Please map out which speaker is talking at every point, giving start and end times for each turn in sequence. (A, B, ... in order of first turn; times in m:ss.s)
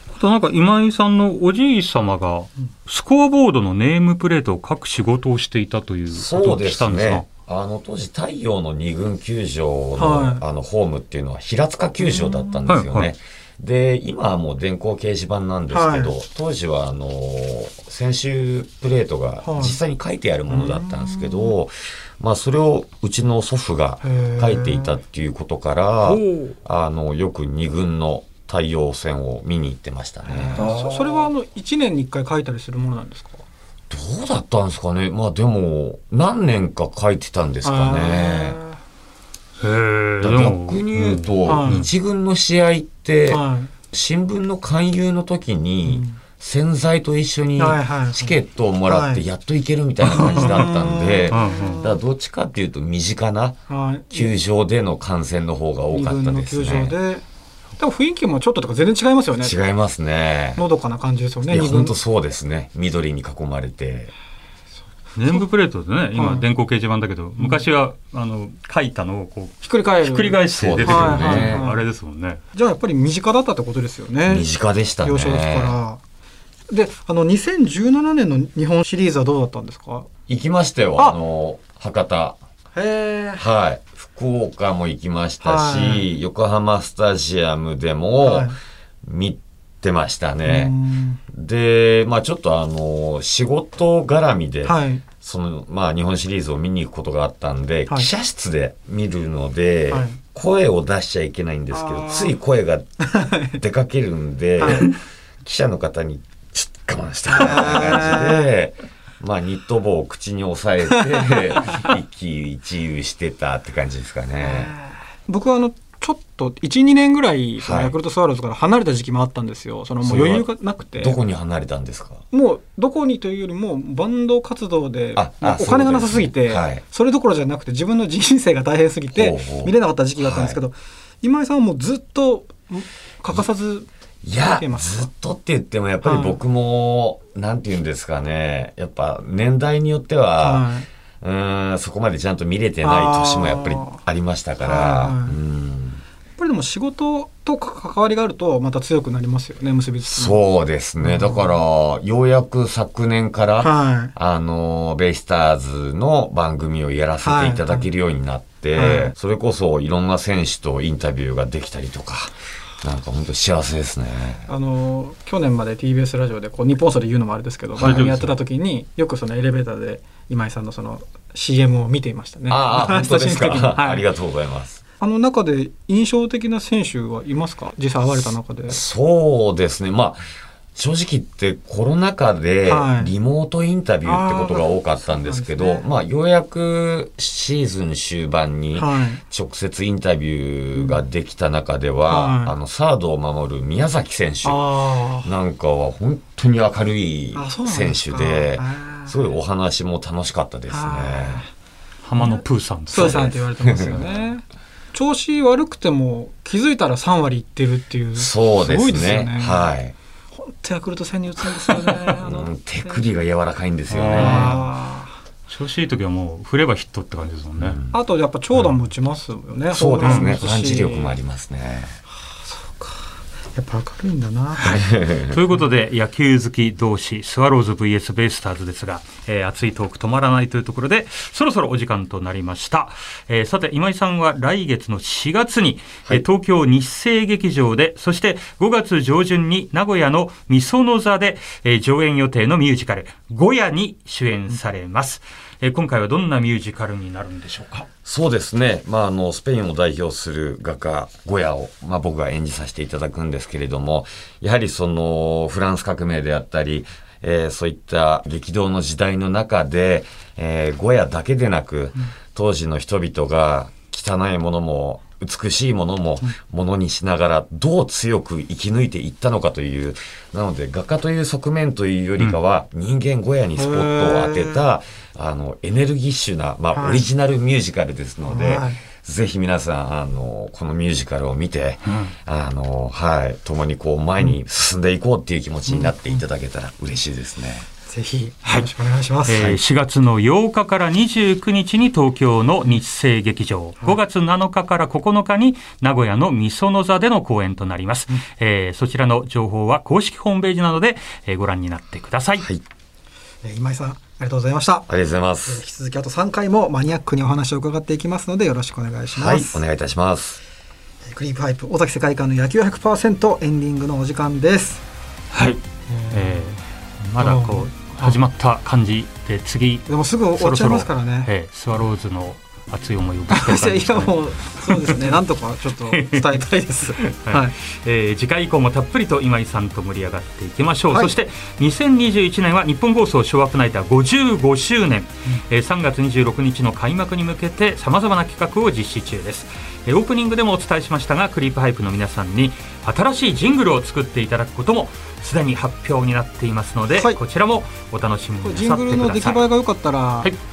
0:00.1-0:07.2 A
0:06.1-0:30.7 B
0:10.0-0:10.4 C
0:12.0-0:12.7 C
0:12.7-0:13.1 A
0:15.7-0:16.1 C
0:19.4-0:19.8 C
0:20.5-0:21.6 C
0:24.0-0:25.0 C
0:26.0-0:26.6 A
0:30.2-0:33.4 C
0:30.6-0:31.3 A
0:33.9-0:38.6 B
0:37.6-0:38.8 C
0:39.6-0:41.8 A
0:40.2-0:53.6 B
0:41.4-0:41.9 C
0:43.3-0:43.7 C
0:45.8-0:46.2 C
0:47.6-0:49.2 C
0:50.0-0:50.5 A
0:50.2-0:52.0 C
0:51.3-0:51.8 A
0:53.7-0:54.3 C
0:54.1-0:57.0 B
0:55.9-0:57.2 C
0:57.8-0:59.6 C
0:59.4-1:00.6 B
1:00.6-1:02.0 C
1:01.5-1:04.1 B
1:05.1-1:12.4 A
1:06.1-1:06.4 C
1:07.4-1:07.6 C
1:09.6-1:11.8 C
1:10.5-1:11.6 B
1:12.5-1:14.5 C
1:14.3-1:15.8 B
1:15.0-1:16.0 C
1:16.7-1:20.1 C
1:20.3-1:22.4 B
1:22.7-1:23.4 C
1:23.4-1:28.5 B
1:25.4-1:26.1 C
1:28.2-1:28.6 C
1:29.0-1:30.7 B
1:30.4-1:31.2 C
1:31.3-1:54.7 B
1:34.6-1:35.0 C
1:39.9-1:40.2 C
1:41.7-1:42.4 C
1:43.0-1:43.6 C
1:44.6-1:44.9 C
1:47.3-1:48.5 C
1:51.0-1:51.7 C
1:54.4-2:01.2 C
1:57.6-1:58.0 B
2:00.0-2:02.2 B
2:02.3-2:13.9 C
2:05.2-2:06.8 B
2:09.1-2:10.6 B
2:14.2-2:20.7 B
2:14.4-2:15.1 C
2:16.0-2:16.4 C
2:20.4-2:20.9 C
2:21.2-2:26.0 B
2:22.8-2:24.0 C
2:24.6-2:25.4 C
2:26.4-2:30.4 C
2:30.1-2:44.5 B
2:31.0-2:31.5 C
2:33.6-2:34.1 C
2:37.2-2:37.9 C
2:38.7-2:39.1 C
2:44.5-2:54.1 C
2:47.8-2:48.3 A
2:52.5-2:54.8 B
2:55.0-2:58.8 C
2:58.7-3:21.4 B
3:02.6-3:03.1 C
3:04.0-3:05.9 C
3:08.8-3:09.2 C
3:10.7-3:11.0 C
3:12.1-3:12.6 C
3:14.4-3:15.3 C
3:17.3-3:19.3 C
3:20.7-3:21.5 C
3:22.0-3:23.3 A
3:22.2-3:29.7 C
3:22.9-3:24.1 B
3:28.2-3:29.9 B
3:30.3-3:33.1 C
3:31.7-3:34.5 B
3:33.9-3:34.7 A
3:34.1-3:35.2 C
3:35.5-3:37.8 A
3:37.6-3:37.9 B
3:37.9-3:41.1 C
3:39.7-3:42.0 B
3:40.0-3:40.4 A
3:42.2-3:44.9 C
3:44.6-3:45.4 B
3:45.3-4:07.9 A
4:08.0-4:47.7 B
4:33.6-4:34.6 C
4:36.7-4:37.0 C
4:38.2-4:38.8 C
4:41.9-4:42.1 A
4:45.7-4:46.2 C
4:47.8-4:49.5 C
4:48.4-4:48.7 A
4:49.2-5:02.4 A
4:49.3-4:49.6 B
5:02.4-5:02.6 B
5:03.4-5:04.9 C
5:04.9-5:05.6 B
5:05.4-5:09.6 C
5:09.1-5:10.4 B
5:11.0-5:14.8 C
5:15.3-5:15.6 A
5:15.9-5:16.5 C
5:16.1-5:25.2 A
5:17.2-5:18.2 C
5:19.9-5:21.3 C
5:23.3-5:27.6 C
5:25.8-5:26.4 A
5:27.0-5:49.5 A
5:30.9-5:31.2 C
5:46.9-5:47.2 C
5:48.4-5:50.3 C